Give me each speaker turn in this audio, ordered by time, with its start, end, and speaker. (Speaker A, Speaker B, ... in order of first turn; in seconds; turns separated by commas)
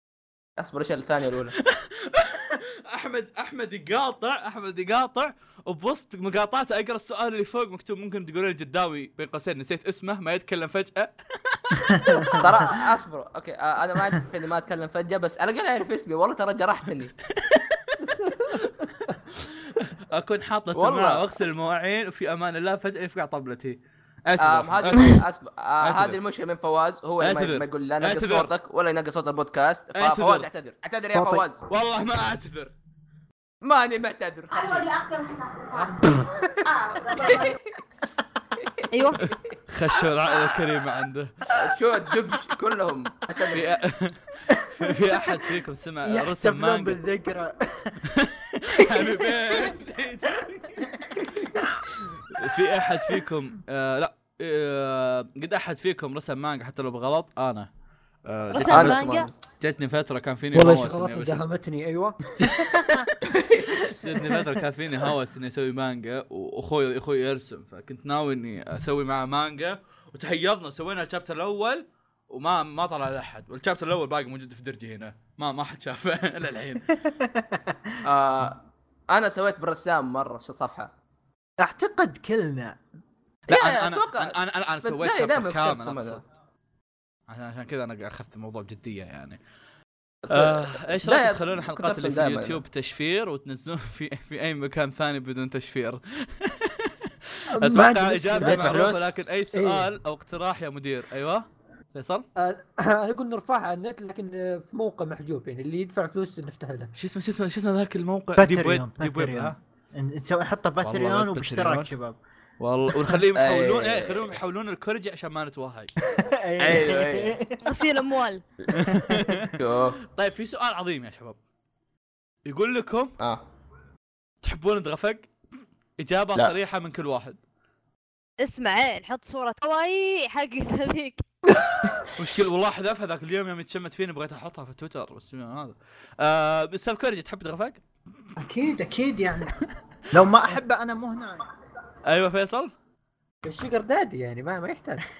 Speaker A: 0.6-1.5, Speaker B: 1.6-12.5, Speaker C: 11.9-12.6, Speaker A: 12.3-17.1, Speaker B: 17.3-25.2, Speaker A: 20.7-21.2, Speaker A: 24.4-31.6, Speaker B: 25.8-26.2, Speaker B: 27.2-28.5, Speaker B: 29.9-30.5, Speaker C: 31.1-31.4, Speaker B: 31.7-32.7, Speaker A: 33.6-35.0, Speaker D: 35.0-35.4, Speaker B: 35.7-36.2, Speaker A: 37.0-37.7, Speaker A: 38.6-38.8, Speaker D: 38.9-39.3, Speaker B: 39.2-41.5, Speaker A: 41.5-43.6, Speaker B: 43.5-47.0, Speaker C: 44.6-45.1, Speaker C: 46.0-48.0, Speaker B: 48.1-50.9, Speaker B: 52.3-57.7, Speaker B: 58.2-59.1, Speaker D: 58.5-59.3, Speaker A: 58.6-59.3, Speaker B: 59.6-61.4, Speaker E: 60.5-62.4, Speaker C: 62.7-63.0, Speaker A: 63.2-63.8, Speaker B: 63.7-76.9, Speaker C: 77.0-78.0, Speaker A: 78.0-80.9, Speaker C: 81.6-82.8, Speaker A: 83.5-86.2, Speaker B: 83.5-86.2, Speaker B: 87.3-89.4, Speaker A: 90.2-92.6, Speaker B: 90.3-102.2, Speaker E: 97.5-98.8, Speaker A: 98.4-99.2, Speaker E: 99.5-99.9, Speaker E: 102.4-106.9, Speaker B: 106.9-109.6, Speaker C: 108.3-112.2, Speaker B: 110.8-111.9, Speaker B: 112.6-115.9, Speaker A: 113.3-114.4, Speaker C: 116.0-117.8, Speaker A: 116.6-117.3, Speaker D: 117.6-118.4, Speaker B: 118.7-121.4, Speaker C: 118.9-119.4, Speaker A: 119.6-120.0, Speaker B: 122.5-123.2, Speaker B: 124.4-125.3, Speaker B: 126.0-127.4, Speaker D: 128.4-131.2, Speaker B: 132.1-137.8, Speaker C: 138.4-139.6, Speaker C: 140.1-141.5, Speaker B: 142.1-142.7, Speaker E: 143.4-145.0